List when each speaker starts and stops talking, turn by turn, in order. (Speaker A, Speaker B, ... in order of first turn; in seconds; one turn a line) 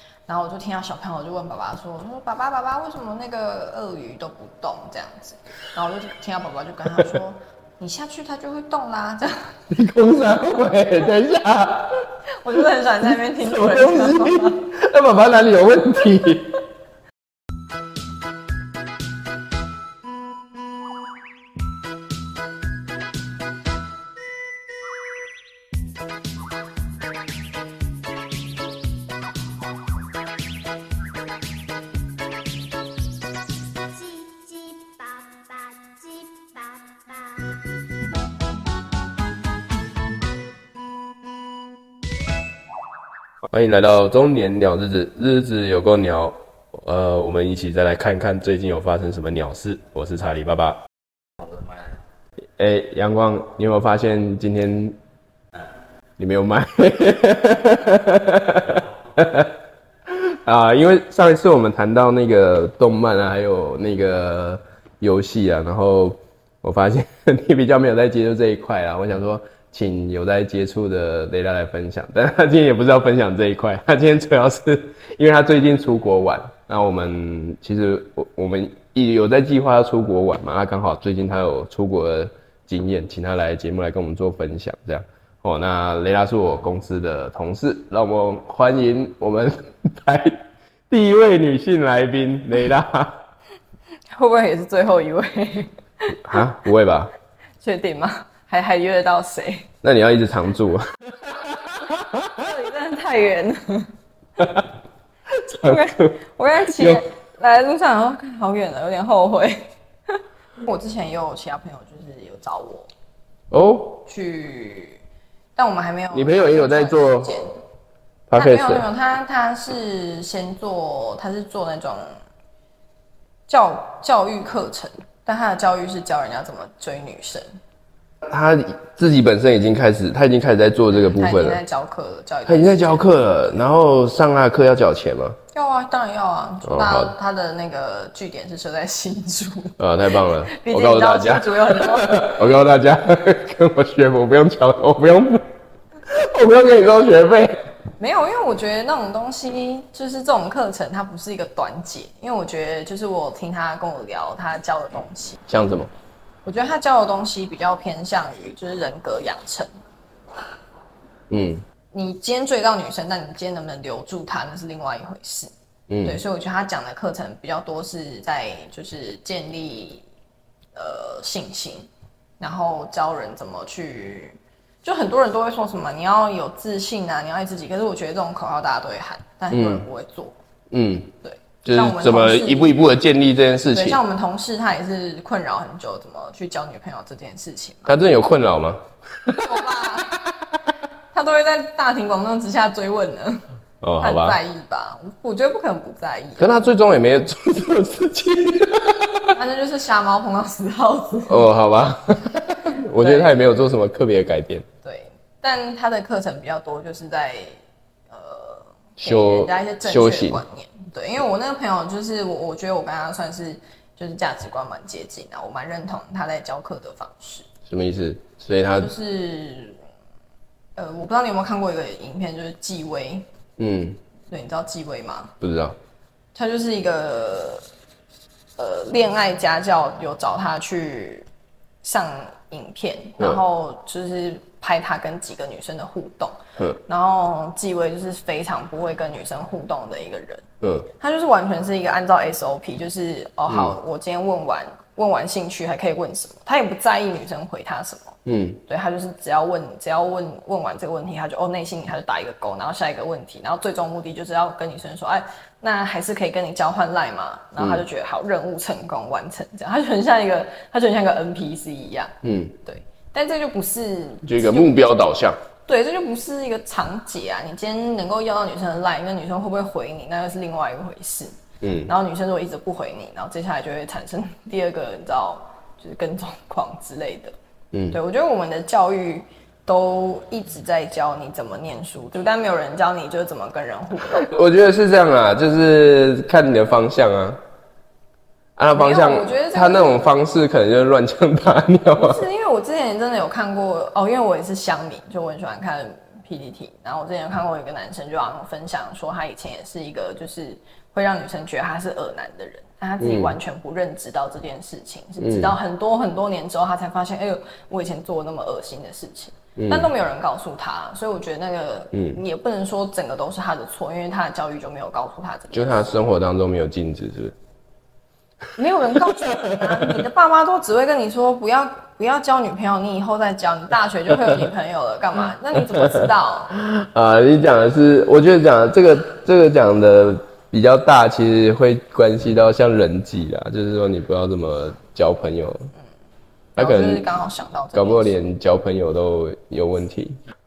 Speaker A: 0.3-9.6
Speaker B: 9.7-12.1
Speaker A: 12.4-14.7
Speaker B: 13.4-16.6
Speaker C: 33.9-37.6
Speaker B: 43.5-50.8
Speaker B: 52.6-55.0
Speaker B: 56.2-59.5
Speaker B: 60.1-93.2
Speaker A: 94.1-96.3
Speaker B: 96.3-97.1
Speaker A: 97.6-99.7
Speaker B: 99.8-100.8
Speaker A: 102.2-103.9
Speaker B: 104.4-104.7
Speaker B: 105.3-106.1
Speaker A: 105.6-112.9
Speaker B: 106.7-107.0
Speaker B: 113.5-114.0
Speaker A: 114.0-115.0
Speaker A: 115.5-117.6
Speaker B: 116.1-117.3
Speaker B: 118.3-118.9
Speaker A: 118.3-122.2
Speaker A: 123.5-127.5
Speaker B: 128.2-131.6
Speaker A: 130.9-133.2
Speaker B: 132.4-135.4
Speaker A: 135.5-142.5
Speaker B: 136.6-137.1
Speaker B: 139.8-145.4
Speaker B: 146.1-147.5
Speaker A: 148.0-155.5
Speaker B: 155.5-155.9
Speaker A: 156.4-159.7
Speaker B: 161.3-161.6
Speaker A: 161.9-165.5
Speaker B: 165.9-166.2
Speaker A: 166.0-170.0
Speaker A: 170.7-171.9
Speaker A: 172.4-180.3
Speaker B: 179.5-179.8
Speaker B: 180.7-181.1
Speaker A: 181.2-182.8
Speaker B: 181.6-184.0
Speaker A: 183.7-187.9
Speaker B: 187.8-189.6
Speaker A: 189.3-190.2
Speaker B: 190.1-190.5
Speaker A: 191.1-193.4
Speaker B: 193.8-194.4
Speaker A: 194.0-196.7
Speaker B: 196.4-199.3
Speaker A: 199.3-201.5
Speaker B: 201.2-204.7
Speaker A: 202.9-203.5
Speaker A: 204.8-207.6
Speaker A: 208.1-217.5
Speaker B: 209.0-210.4
Speaker B: 217.7-218.9
Speaker A: 218.8-219.8
Speaker A: 220.8-223.2
Speaker B: 223.6-224.0
Speaker A: 224.3-225.3
Speaker B: 225.4-225.8
Speaker A: 226.3-227.7
Speaker A: 228.6-231.3
Speaker A: 231.8-240.4
Speaker B: 240.6-240.9
Speaker A: 241.0-262.1
Speaker B: 243.5-243.7
Speaker B: 248.2-248.6
Speaker B: 257.6-257.8
Speaker B: 262.2-262.6
Speaker A: 262.6-264.8
Speaker B: 264.2-265.4
Speaker A: 265.7-271.3
Speaker B: 271.6-271.9
Speaker A: 271.9-277.3
Speaker A: 277.9-284.3
Speaker B: 284.1-287.4
Speaker B: 288.6-292.2
Speaker A: 288.7-290.1
Speaker A: 291.9-315.9
Speaker B: 303.0-303.4
Speaker B: 305.2-305.5
Speaker B: 309.6-309.9
Speaker B: 311.9-312.2
Speaker B: 315.5-317.3
Speaker A: 318.5-326.6
Speaker B: 319.1-320.0
Speaker B: 325.7-335.7
Speaker B: 336.6-337.1
Speaker A: 336.6-338.2
Speaker B: 337.7-340.2